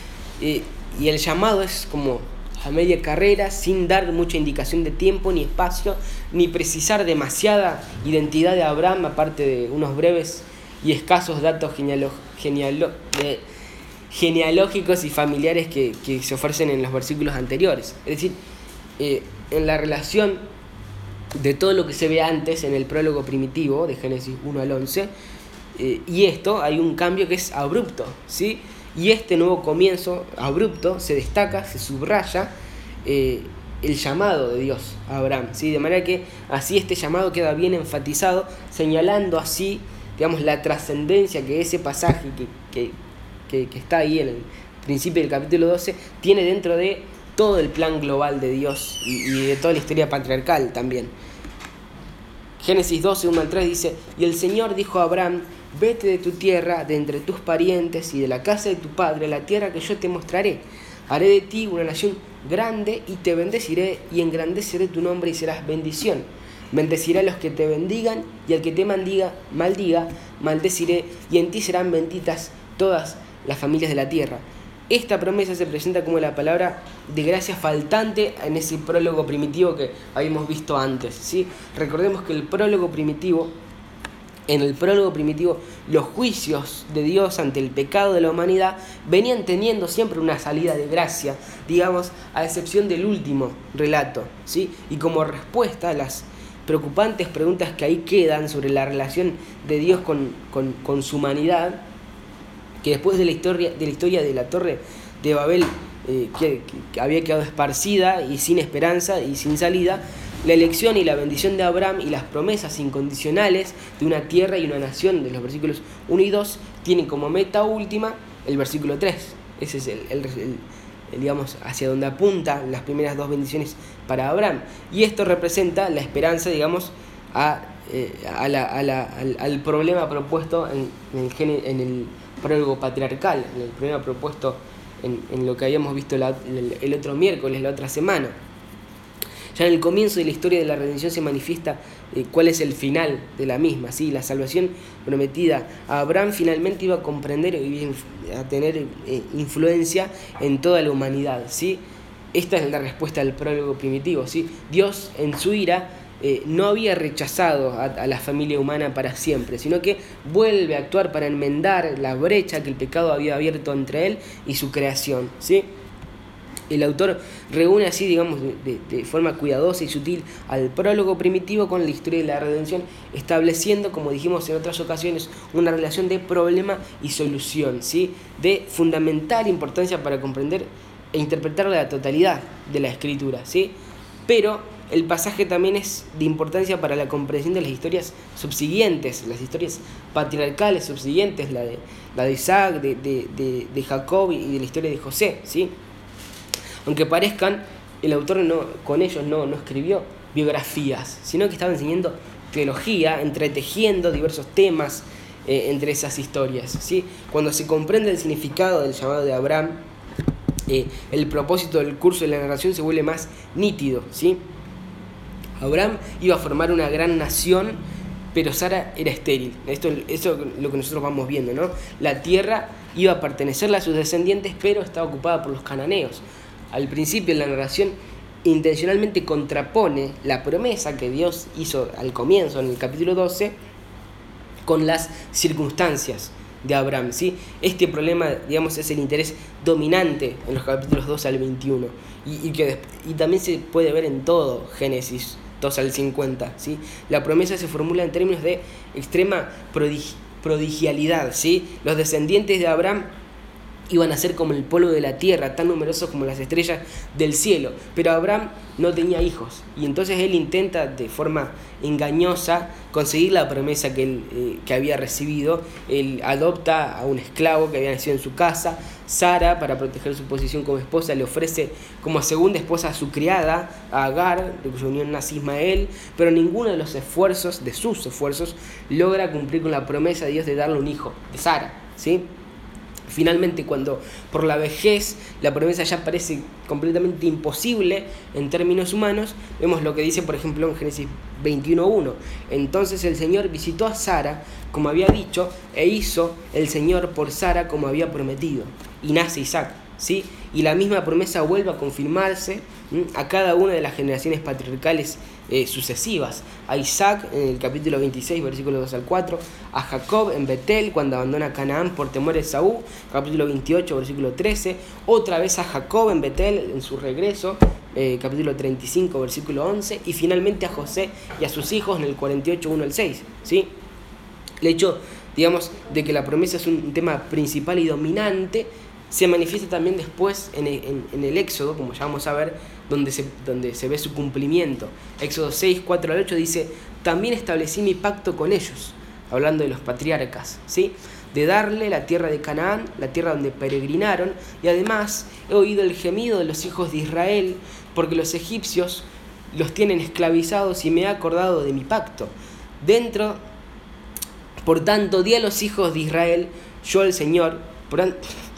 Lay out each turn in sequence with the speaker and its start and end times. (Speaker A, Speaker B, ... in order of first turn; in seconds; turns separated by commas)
Speaker A: 0.4-13.4, Speaker A: 14.1-18.4, Speaker A: 19.0-20.4, Speaker A: 21.3-25.1, Speaker A: 25.8-32.5, Speaker A: 33.0-43.0, Speaker A: 43.5-51.1, Speaker A: 52.6-83.5, Speaker A: 84.5-101.8, Speaker A: 102.8-138.3, Speaker A: 139.5-151.8, Speaker A: 152.3-165.7, Speaker A: 166.7-183.7, Speaker A: 184.3-195.7, Speaker A: 196.8-209.8, Speaker A: 210.7-214.4, Speaker A: 215.6-217.8, Speaker A: 218.3-233.5, Speaker A: 234.6-253.1, Speaker A: 253.9-282.3, Speaker A: 283.1-323.7, Speaker A: 324.6-353.4, Speaker A: 354.6-358.2